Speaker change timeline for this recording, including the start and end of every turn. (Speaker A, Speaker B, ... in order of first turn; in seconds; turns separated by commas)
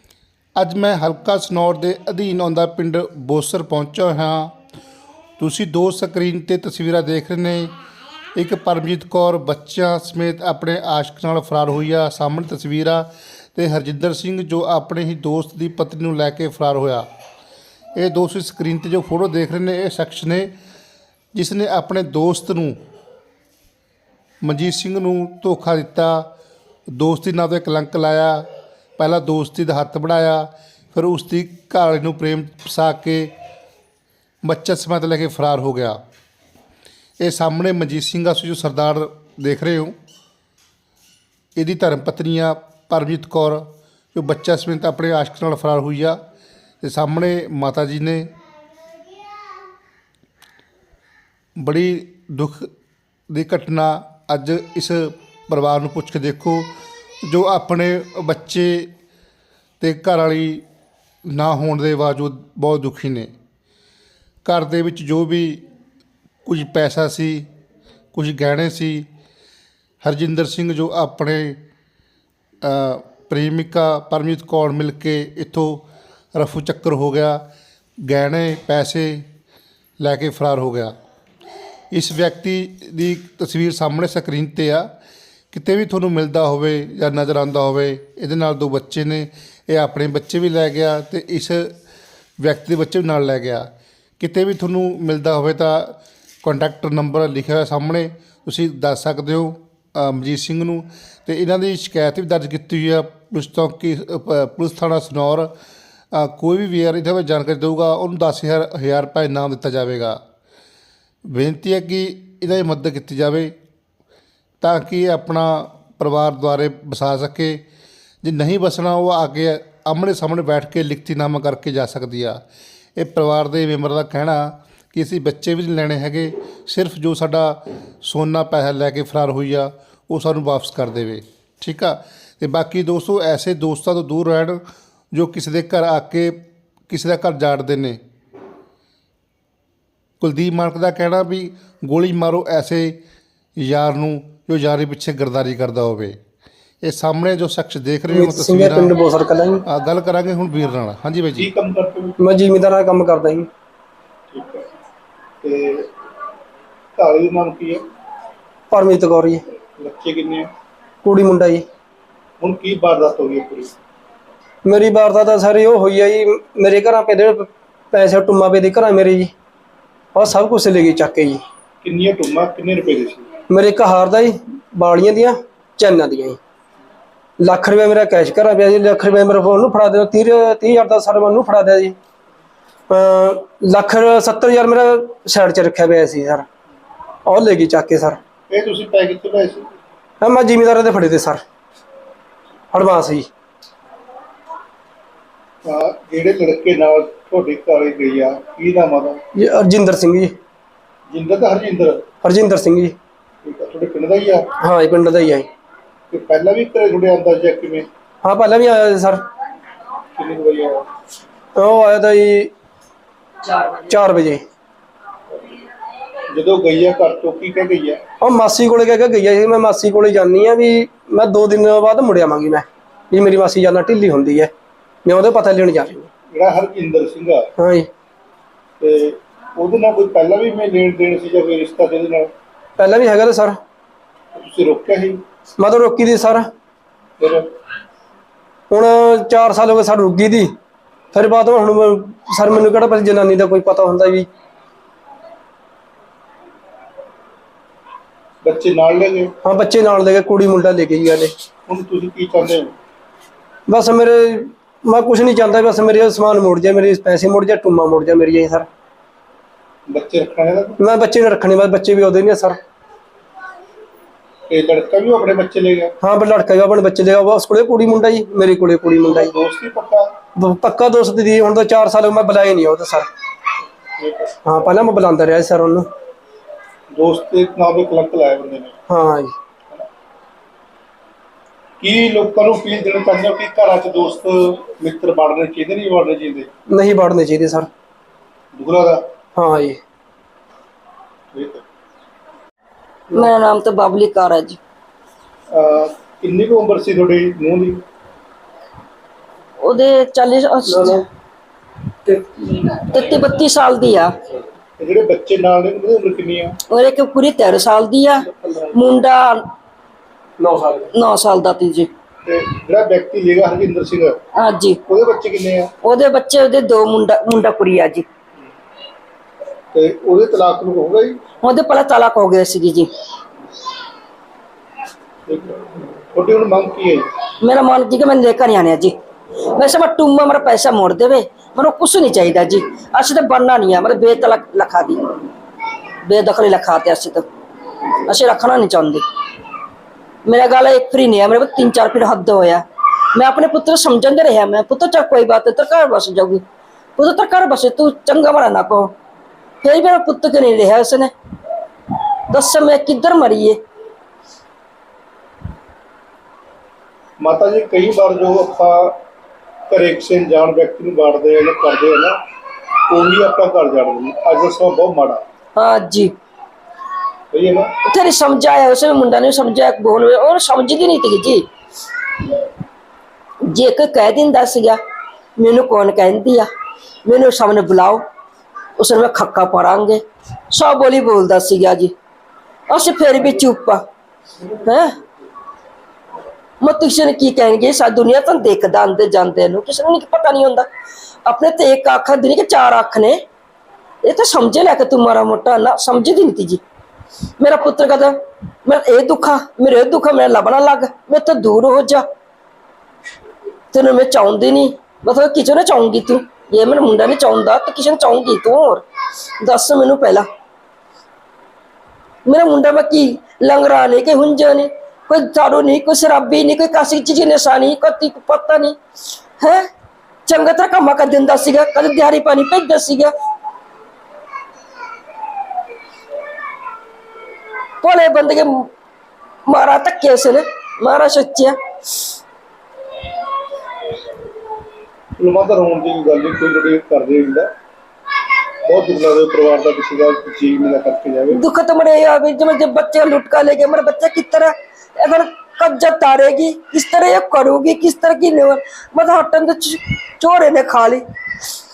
Speaker A: 0.6-4.5, Speaker A: 5.4-7.7, Speaker A: 8.3-17.1, Speaker A: 17.9-20.5, Speaker A: 21.3-22.8, Speaker A: 24.4-26.3, Speaker A: 26.9-33.3, Speaker A: 34.4-36.0, Speaker A: 37.2-39.9, Speaker A: 41.5-46.2, Speaker A: 46.8-48.3, Speaker A: 51.6-52.7, Speaker A: 53.3-56.7, Speaker A: 57.2-58.9, Speaker A: 59.8-60.6, Speaker A: 61.2-63.3, Speaker A: 64.4-65.6, Speaker A: 66.4-67.5, Speaker A: 68.1-69.0, Speaker A: 70.0-71.6, Speaker A: 72.6-77.4, Speaker A: 78.0-79.2, Speaker A: 80.0-80.9, Speaker A: 81.9-84.9, Speaker A: 85.5-91.7, Speaker A: 92.4-105.5, Speaker A: 106.1-110.2, Speaker A: 111.2-113.5, Speaker A: 114.6-117.6, Speaker A: 118.2-122.4, Speaker A: 123.0-134.6, Speaker A: 135.1-136.4, Speaker A: 136.9-138.0, Speaker A: 140.2-143.0, Speaker A: 143.6-146.2, Speaker A: 146.8-148.9, Speaker B: 148.1-149.6, Speaker A: 149.7-151.5, Speaker C: 151.4-152.1, Speaker B: 152.2-153.5, Speaker C: 154.3-154.6, Speaker C: 155.4-155.9, Speaker C: 156.9-157.8, Speaker B: 158.7-159.4, Speaker C: 159.8-160.5, Speaker B: 161.0-161.6, Speaker C: 162.4-163.7, Speaker B: 164.6-169.3, Speaker B: 170.1-171.4, Speaker C: 171.8-173.3, Speaker B: 173.5-176.4, Speaker B: 177.4-181.9, Speaker B: 182.9-186.4, Speaker B: 187.2-188.2, Speaker C: 188.5-189.7, Speaker B: 190.2-191.4, Speaker B: 192.7-193.3, Speaker C: 195.6-199.2, Speaker B: 199.3-200.3, Speaker C: 201.1-202.1, Speaker B: 202.2-202.9, Speaker C: 203.4-204.5, Speaker B: 204.6-205.5, Speaker C: 206.1-207.9, Speaker B: 208.2-209.2, Speaker C: 210.2-210.8, Speaker B: 211.6-212.5, Speaker B: 213.7-214.4, Speaker C: 216.3-218.0, Speaker B: 218.2-224.5, Speaker B: 225.0-226.1, Speaker C: 226.3-227.5, Speaker B: 227.6-227.9, Speaker C: 228.8-232.3, Speaker B: 232.8-233.6, Speaker C: 234.3-235.2, Speaker B: 235.6-236.5, Speaker C: 237.2-237.5, Speaker B: 238.7-240.5, Speaker B: 241.1-244.3, Speaker C: 248.4-249.3, Speaker B: 249.4-251.3, Speaker C: 251.7-252.7, Speaker B: 253.7-258.7, Speaker C: 259.9-260.8, Speaker B: 260.8-262.6, Speaker C: 264.5-265.9, Speaker B: 266.0-269.3, Speaker C: 269.0-270.1, Speaker B: 270.4-273.1, Speaker C: 274.0-274.3, Speaker B: 274.4-275.9, Speaker C: 276.9-278.8, Speaker B: 278.9-279.3, Speaker C: 281.8-286.5, Speaker B: 286.7-287.7, Speaker C: 288.5-289.0, Speaker B: 289.3-289.8, Speaker C: 291.3-291.6, Speaker D: 293.1-294.6, Speaker C: 295.5-297.8, Speaker D: 299.6-301.0, Speaker B: 300.7-301.0, Speaker B: 302.1-302.4, Speaker D: 302.6-304.1, Speaker C: 304.8-306.6, Speaker D: 306.7-309.5, Speaker B: 310.4-310.9, Speaker D: 310.9-311.9, Speaker C: 312.2-314.2, Speaker D: 314.4-314.8, Speaker C: 314.9-315.7, Speaker D: 315.8-318.1, Speaker C: 319.7-321.2, Speaker D: 321.4-322.9, Speaker C: 325.3-327.1, Speaker D: 327.4-328.9, Speaker D: 329.5-335.2, Speaker D: 336.0-337.2, Speaker D: 338.0-339.0, Speaker D: 340.2-342.6, Speaker D: 343.1-346.4, Speaker D: 347.0-348.9, Speaker D: 349.6-351.1, Speaker D: 352.3-353.6, Speaker C: 357.2-359.0, Speaker C: 359.7-362.2, Speaker C: 362.9-365.2, Speaker D: 365.6-366.1, Speaker C: 367.3-367.7, Speaker D: 367.9-371.4, Speaker D: 373.5-374.8, Speaker D: 375.4-376.5, Speaker D: 377.1-378.0, Speaker D: 378.8-381.9, Speaker D: 382.7-383.8, Speaker D: 384.5-384.9, Speaker D: 386.6-390.7, Speaker D: 391.2-393.2, Speaker D: 394.0-396.6, Speaker D: 397.4-402.0, Speaker D: 403.7-408.8, Speaker D: 409.4-410.3, Speaker D: 412.2-418.8, Speaker D: 419.4-419.6, Speaker D: 420.2-423.1, Speaker D: 427.8-428.7, Speaker D: 429.5-431.6, Speaker C: 435.2-437.5, Speaker C: 438.6-441.4, Speaker D: 441.3-451.0